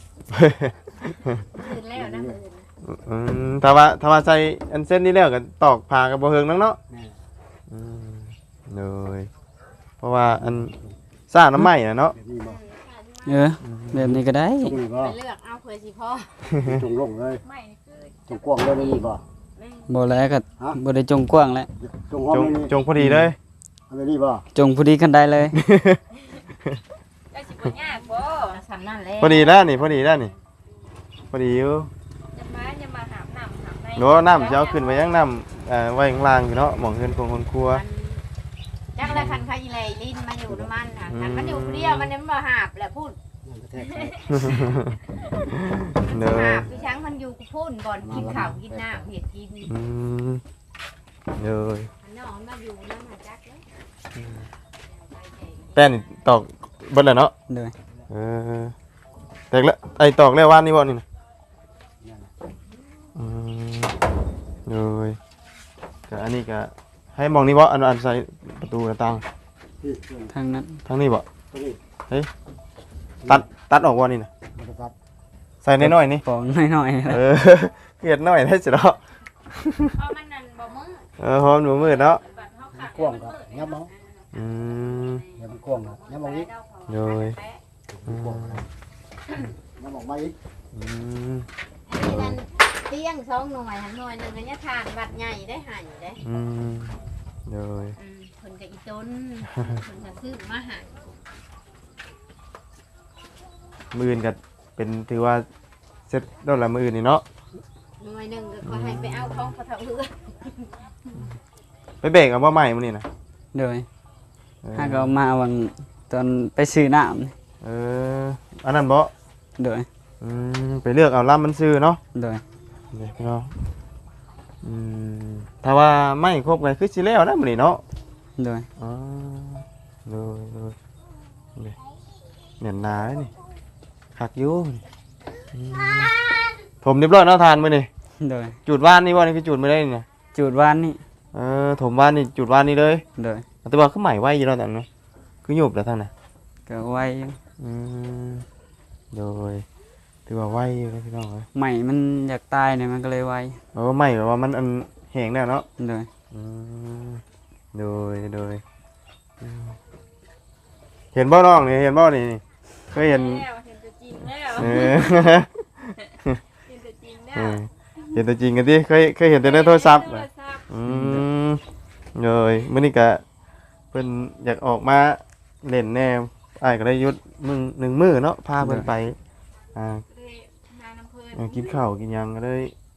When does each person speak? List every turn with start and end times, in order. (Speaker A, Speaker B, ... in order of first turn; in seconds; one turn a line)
Speaker A: 0.3-1.4
Speaker B: 1.6-2.7
Speaker C: 1.6-2.4
Speaker A: 2.8-6.8
Speaker C: 6.9-7.2
Speaker A: 7.7-9.3
Speaker A: 10.0-10.8
Speaker C: 10.4-10.9
Speaker A: 11.3-12.2
Speaker C: 12.1-12.6
Speaker B: 12.4-13.4
Speaker D: 13.2-14.8
Speaker A: 13.6-14.2
Speaker C: 14.6-15.2
Speaker B: 14.9-16.6
Speaker A: 16.5-16.8
Speaker C: 16.6-17.4
Speaker E: 17.4-18.6
Speaker C: 18.3-19.2
Speaker B: 18.8-19.0
Speaker D: 19.9-21.7
Speaker C: 21.8-22.7
Speaker A: 22.3-23.4
Speaker D: 23.0-23.3
Speaker C: 23.9-24.4
Speaker D: 24.5-25.6
Speaker A: 25.5-26.0
Speaker E: 27.3-28.6
Speaker B: 27.9-30.3
Speaker A: 29.2-30.3
Speaker A: 31.3-31.9
Speaker E: 32.3-35.0
Speaker A: 34.0-37.8
Speaker B: 37.7-38.2
Speaker B: 39.0-43.2
Speaker C: 39.0-39.5
Speaker A: 41.1-42.1
Speaker C: 43.4-44.8
Speaker A: 44.3-46.7
Speaker B: 46.1-49.7
Speaker C: 46.5-46.9
Speaker C: 48.0-49.1
Speaker A: 48.1-48.4
Speaker A: 49.6-50.4
Speaker A: 51.4-51.9
Speaker B: 52.0-53.6
Speaker A: 54.1-54.5
Speaker B: 54.9-55.9
Speaker A: 55.8-57.3
Speaker D: 57.5-57.7
Speaker A: 58.1-58.7
Speaker A: 59.5-61.0
Speaker C: 62.0-62.3
Speaker A: 63.2-64.0
Speaker A: 64.7-65.2
Speaker A: 66.1-69.2
Speaker C: 69.8-70.3
Speaker D: 70.3-70.8
Speaker A: 70.9-71.3
Speaker C: 71.5-71.8
Speaker A: 73.3-74.3
Speaker C: 74.5-74.9
Speaker A: 75.6-76.2
Speaker D: 75.8-77.2
Speaker A: 77.1-80.0
Speaker E: 80.0-80.5
Speaker B: 80.4-81.1
Speaker A: 81.2-82.2
Speaker E: 81.7-83.7
Speaker C: 82.7-83.9
Speaker B: 83.9-84.3
Speaker A: 84.3-85.2
Speaker B: 85.0-87.6
Speaker C: 85.3-86.5
Speaker A: 86.9-87.4
Speaker C: 87.9-88.7
Speaker A: 88.0-88.7
Speaker C: 89.8-90.3
Speaker A: 90.7-92.4
Speaker B: 91.9-96.2
Speaker A: 96.2-98.0
Speaker B: 98.0-101.1
Speaker A: 99.6-99.8
Speaker A: 103.9-105.4
Speaker A: 106.1-107.2
Speaker B: 108.0-110.7
Speaker A: 108.6-109.5
Speaker A: 112.0-113.1
Speaker D: 113.5-113.9
Speaker A: 114.6-115.2
Speaker D: 114.8-117.3
Speaker A: 117.6-119.1
Speaker D: 119.6-119.9
Speaker A: 120.2-122.0
Speaker D: 122.1-122.4
Speaker A: 122.9-123.5
Speaker A: 124.6-127.8
Speaker D: 128.4-128.7
Speaker A: 128.8-130.8
Speaker A: 132.6-133.3
Speaker A: 134.2-134.8
Speaker A: 135.5-136.1
Speaker A: 136.8-137.9
Speaker D: 138.2-138.6
Speaker A: 138.7-140.1
Speaker D: 140.3-141.0
Speaker A: 141.3-143.0
Speaker D: 143.2-143.5
Speaker A: 143.7-144.9
Speaker A: 145.4-146.1
Speaker D: 146.7-147.4
Speaker A: 147.6-148.5
Speaker A: 149.1-149.7
Speaker A: 150.3-151.5
Speaker D: 151.6-153.6
Speaker A: 153.7-155.7
Speaker D: 155.8-156.1
Speaker A: 156.3-157.2
Speaker A: 157.7-158.6
Speaker A: 159.4-159.8
Speaker A: 161.1-163.5
Speaker E: 162.9-165.2
Speaker A: 164.5-166.4
Speaker E: 166.7-167.6
Speaker A: 167.3-171.6
Speaker E: 169.4-170.7
Speaker D: 170.8-171.2
Speaker A: 172.2-173.2
Speaker A: 173.9-179.2
Speaker D: 178.6-178.9
Speaker A: 179.8-180.1
Speaker E: 180.1-181.7
Speaker A: 181.3-182.7